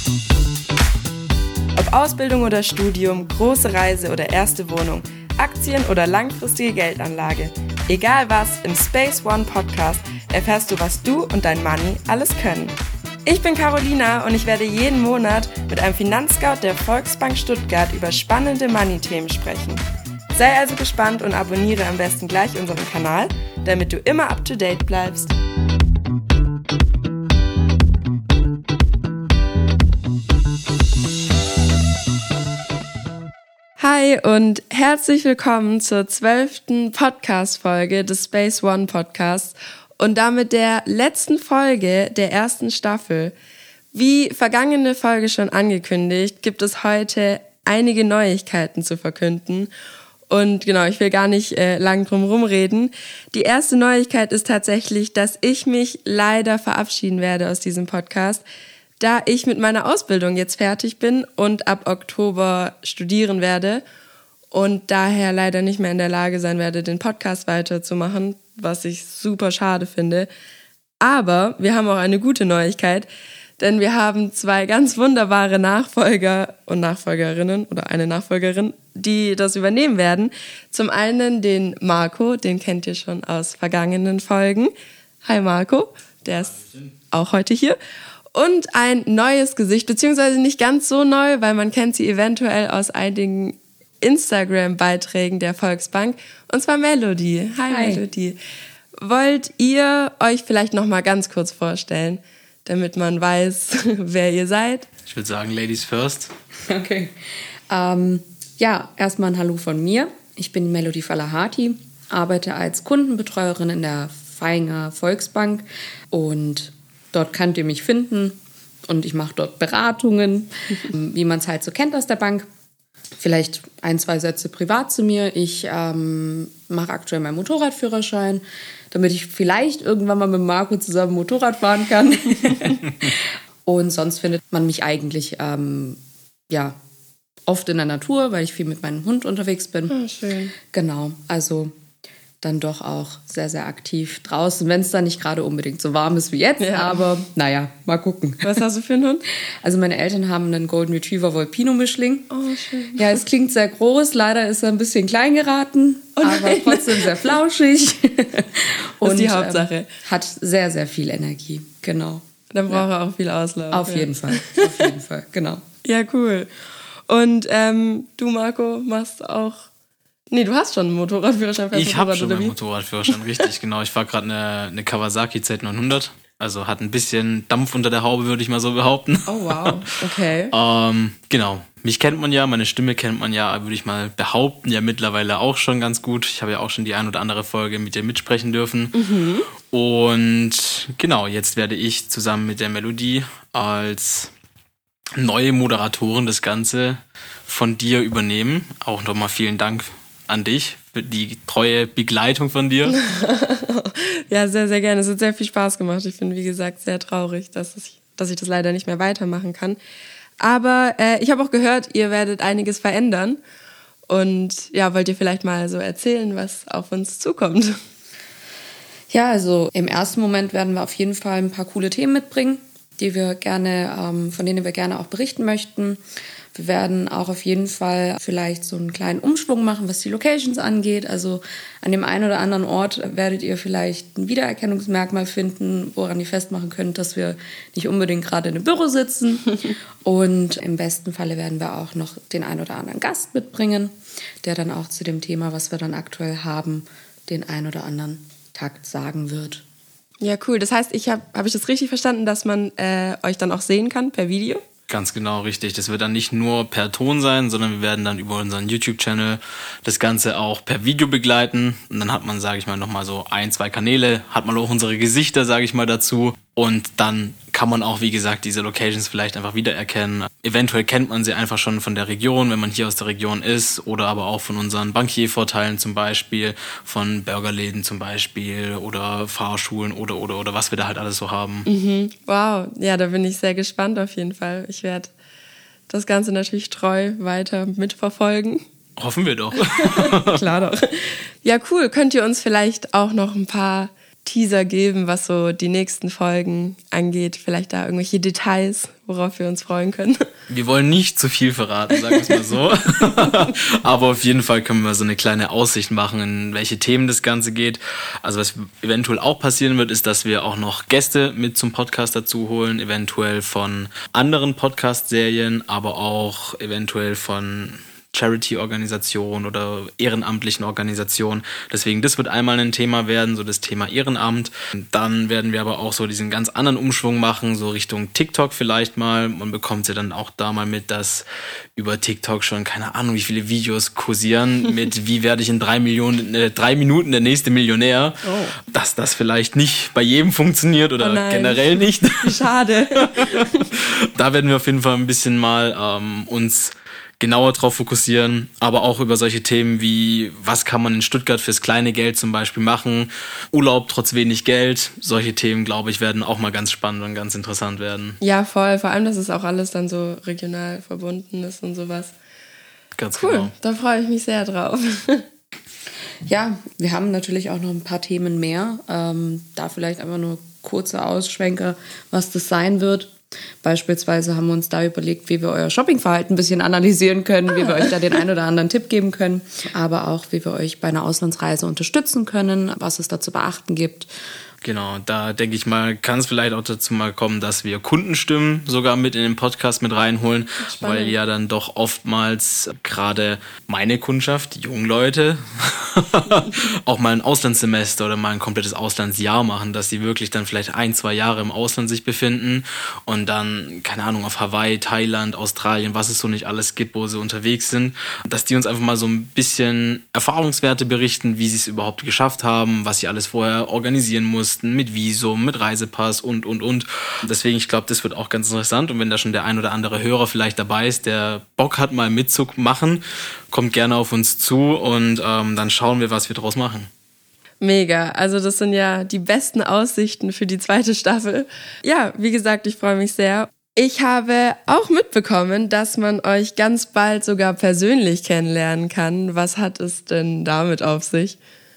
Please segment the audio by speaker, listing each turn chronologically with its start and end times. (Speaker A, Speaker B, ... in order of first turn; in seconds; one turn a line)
Speaker A: 1.7-25.3
Speaker A: 33.8-43.3
Speaker A: 43.9-49.7
Speaker A: 50.3-58.4
Speaker A: 59.0-63.8
Speaker A: 64.5-70.3
Speaker A: 71.0-73.1
Speaker A: 73.6-84.7
Speaker A: 85.2-87.8
Speaker A: 88.3-98.4
Speaker B: 97.7-98.0
Speaker A: 99.0-104.9
Speaker C: 105.1-106.3
Speaker B: 106.7-107.1
Speaker B: 107.7-122.5
Speaker B: 123.2-136.0
Speaker B: 136.5-136.8
Speaker B: 137.5-139.9
Speaker A: 139.9-140.5
Speaker B: 140.7-141.7
Speaker B: 142.4-148.4
Speaker A: 146.6-147.0
Speaker A: 148.4-149.2
Speaker B: 149.6-152.3
Speaker A: 152.3-153.2
Speaker B: 152.9-162.9
Speaker A: 156.2-157.3
Speaker A: 159.0-159.8
Speaker A: 162.5-164.8
Speaker B: 163.7-165.6
Speaker A: 165.8-166.5
Speaker A: 167.1-169.7
Speaker A: 170.3-172.5
Speaker C: 171.7-179.8
Speaker A: 179.3-180.5
Speaker C: 180.5-189.0
Speaker A: 188.9-189.5
Speaker C: 189.7-194.3
Speaker C: 195.2-203.0
Speaker A: 202.9-209.8
Speaker A: 210.4-213.4
Speaker A: 214.1-217.8
Speaker B: 219.1-226.0
Speaker B: 226.5-249.6
Speaker A: 250.2-254.6
Speaker C: 254.9-281.7
Speaker A: 281.6-285.1
Speaker A: 285.9-288.6
Speaker C: 288.9-290.4
Speaker A: 289.6-300.2
Speaker C: 300.5-358.2
Speaker A: 338.2-338.5
Speaker A: 341.0-343.6
Speaker A: 358.2-362.1
Speaker C: 362.9-363.5
Speaker A: 363.2-365.2
Speaker B: 366.3-384.1
Speaker A: 377.7-377.9
Speaker C: 384.6-426.9
Speaker A: 390.6-391.1
Speaker A: 427.6-441.4